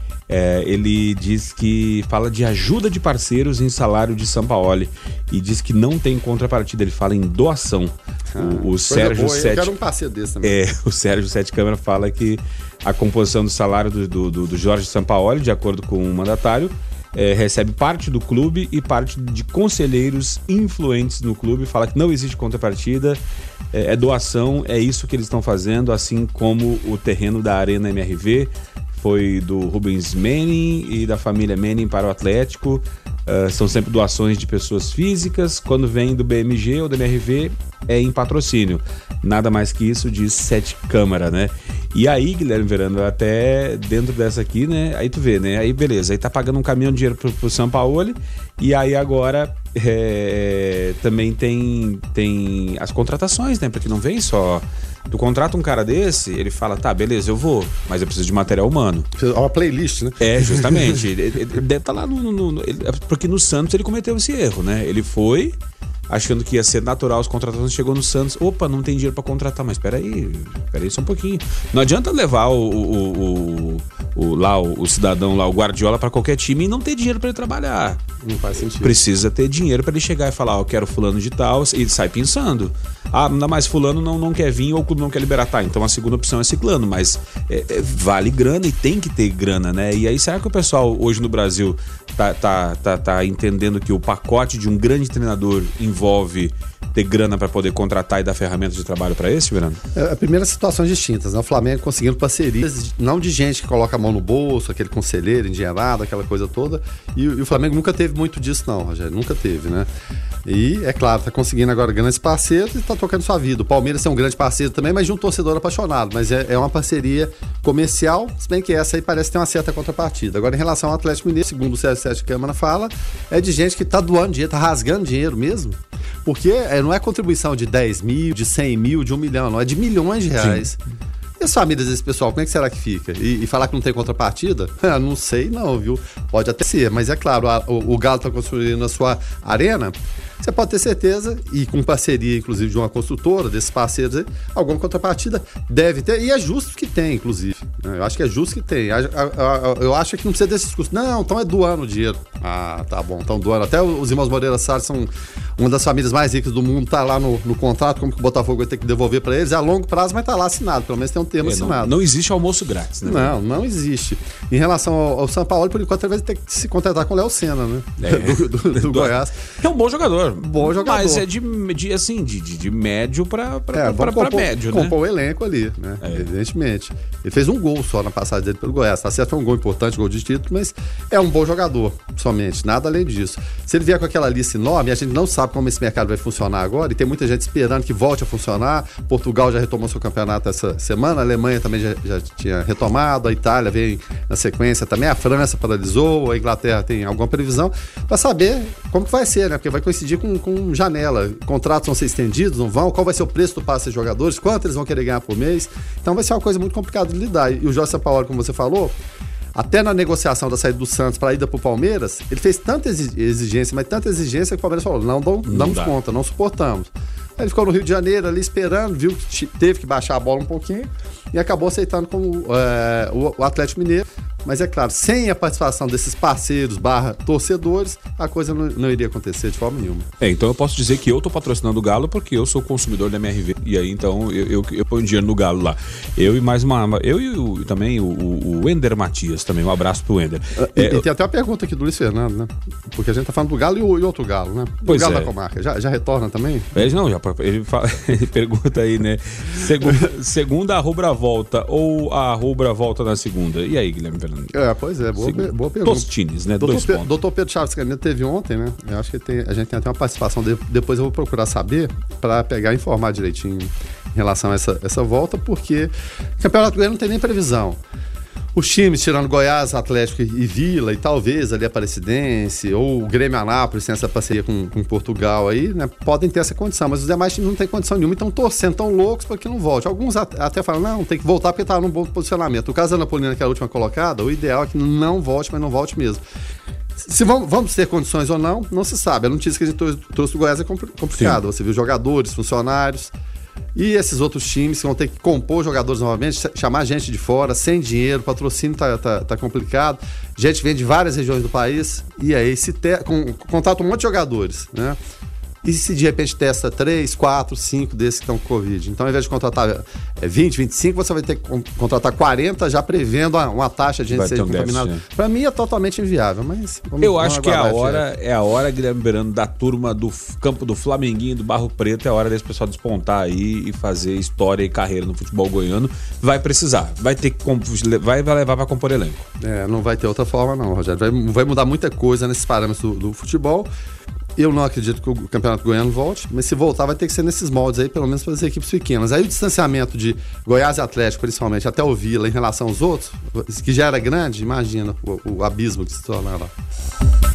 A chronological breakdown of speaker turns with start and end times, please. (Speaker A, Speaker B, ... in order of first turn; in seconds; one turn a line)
Speaker A: 0.3-9.7
Speaker B: 8.3-10.6
Speaker A: 10.4-23.2
Speaker A: 23.7-59.1
Speaker B: 59.2-61.0
Speaker A: 60.2-65.6
Speaker A: 66.1-78.0
Speaker B: 78.2-79.0
Speaker A: 78.8-99.8
Speaker B: 100.0-109.9
Speaker B: 110.5-130.8
Speaker A: 130.4-130.7
Speaker B: 131.4-161.9
Speaker A: 161.4-163.4
Speaker B: 163.1-169.4
Speaker A: 168.0-175.0
Speaker B: 170.4-171.2
Speaker B: 173.7-209.0
Speaker A: 176.0-176.3
Speaker B: 209.6-230.1
Speaker A: 215.4-215.9
Speaker A: 230.2-241.1
Speaker B: 240.6-246.9
Speaker A: 244.8-245.3
Speaker A: 246.7-254.6
Speaker B: 254.5-267.8
Speaker A: 255.2-257.1
Speaker B: 268.5-286.2
Speaker B: 287.0-293.1
Speaker B: 293.8-305.0
Speaker B: 305.6-318.1
Speaker A: 314.1-315.0
Speaker A: 317.0-329.3
Speaker B: 329.4-333.7
Speaker B: 334.4-346.5